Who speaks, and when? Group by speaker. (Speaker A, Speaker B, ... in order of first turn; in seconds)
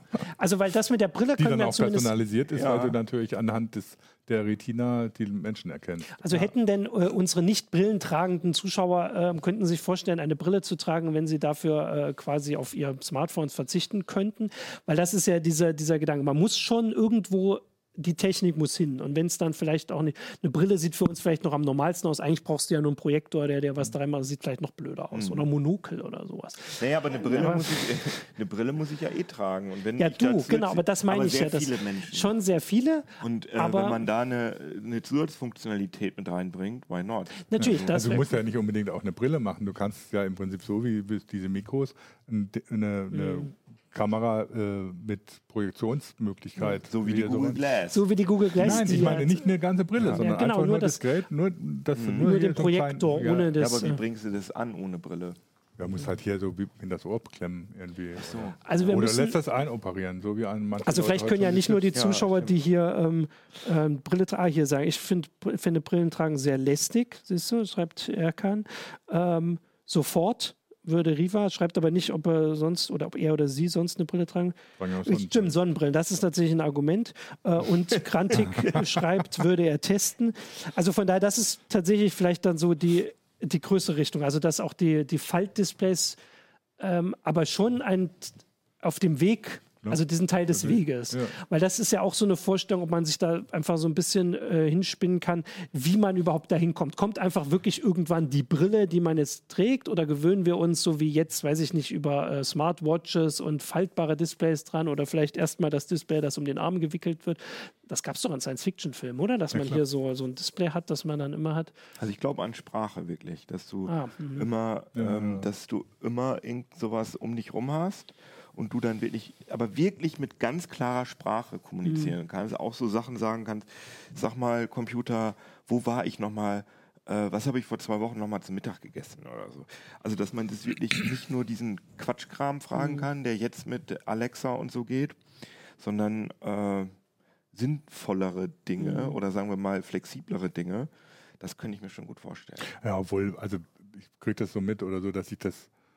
Speaker A: 0.2-2.1, 6.2-27.9, 30.0-34.0, 37.4-38.4, 43.1-43.5, 47.9-49.5, 50.1-51.0, 52.2-54.0, 58.6-59.4, 60.8-86.2, 86.8-111.7, 113.9-114.5, 121.8-122.1, 132.8-133.1, 138.8-139.2
Speaker B: 1.4-6.5, 37.6-47.6, 48.6-53.5, 55.8-62.0, 74.8-75.5, 78.3-78.8, 90.5-91.3, 109.5-109.8, 114.9-115.5, 142.7-145.7
Speaker C: 2.5-3.0, 25.1-25.5, 26.8-32.3, 33.2-38.1, 46.8-49.2, 50.0-50.3, 51.9-52.3, 53.5-55.4, 58.1-58.9, 61.9-62.5, 78.3-78.8, 112.0-135.2, 135.8-136.9, 137.5-142.7